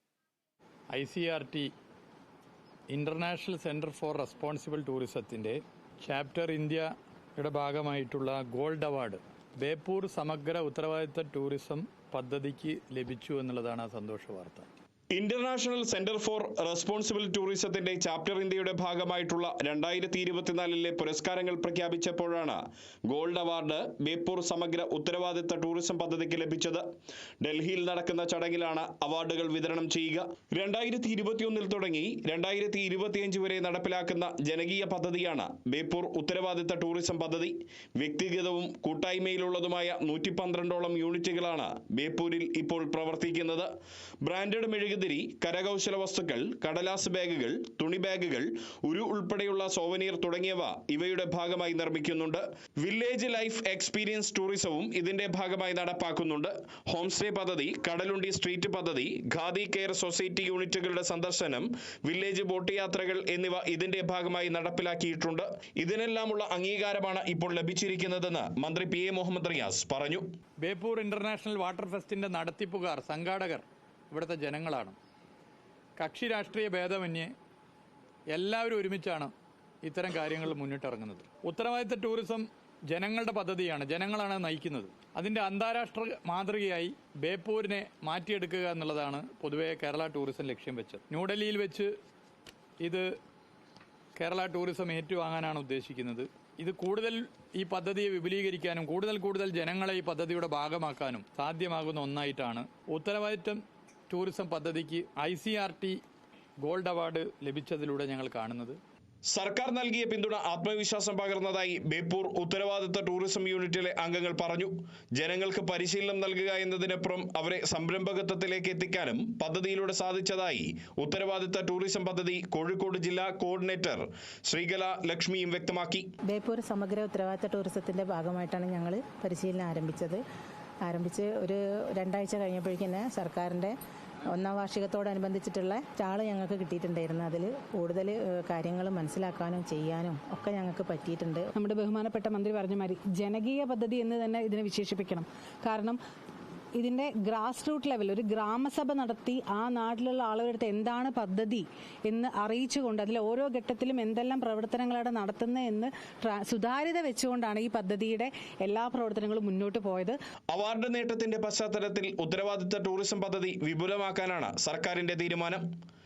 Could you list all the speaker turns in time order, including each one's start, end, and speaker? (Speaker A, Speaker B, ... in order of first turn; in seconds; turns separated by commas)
Speaker A: 0.9-1.7, Speaker A: 2.9-14.7, Speaker B: 15.1-26.8, Speaker B: 27.4-43.7, Speaker B: 44.2-70.3, Speaker A: 70.6-75.0, Speaker A: 76.0-77.3, Speaker A: 78.3-79.3, Speaker A: 79.8-91.9, Speaker A: 94.2-106.0, Speaker A: 106.6-108.8, Speaker B: 109.3-126.1, Speaker C: 126.3-130.2, Speaker C: 130.8-133.8, Speaker C: 134.3-141.5, Speaker D: 141.6-146.0, Speaker D: 146.8-160.2, Speaker B: 160.5-165.7